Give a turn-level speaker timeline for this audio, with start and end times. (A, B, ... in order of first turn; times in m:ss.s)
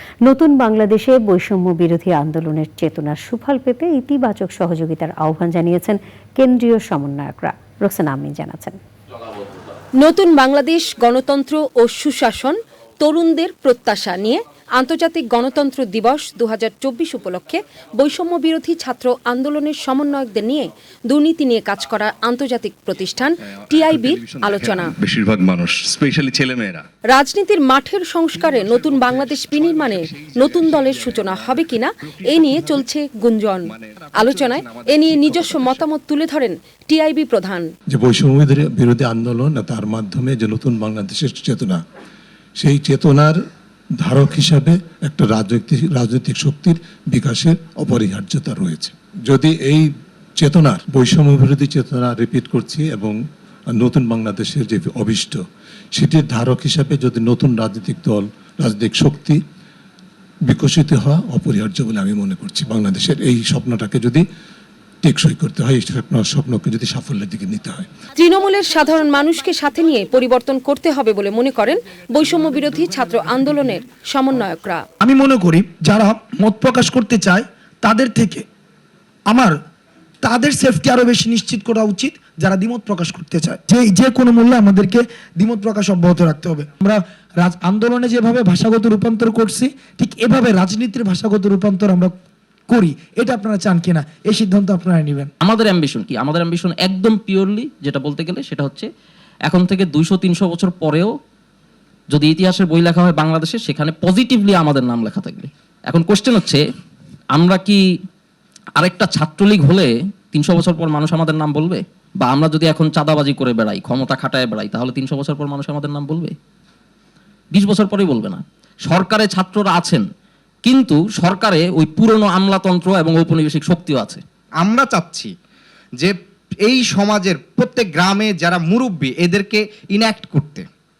0:00.2-0:08.8 A
0:10.0-0:25.0 B
0:23.7-0:26.8 C
0:27.1-0:37.7 B
0:28.3-0:32.8 C
0:33.7-0:35.9 C
0:37.9-0:41.8 D
0:42.6-0:43.4 D
0:44.0-0:53.2 D
0:53.7-0:55.4 D
0:56.0-0:59.4 D
1:00.5-1:04.2 D
1:05.0-1:07.9 D
1:08.1-1:14.8 B
1:15.0-1:18.4 E
1:19.3-1:19.6 E
1:20.2-1:32.1 E
1:32.7-1:35.3 E
1:35.4-1:38.9 F
1:39.5-1:41.1 F
1:42.1-1:46.6 F
1:47.3-1:47.8 F
1:48.8-1:56.3 F
1:57.5-2:00.0 F
2:00.6-2:04.2 F
2:04.6-2:05.3 G
2:06.0-2:10.7 G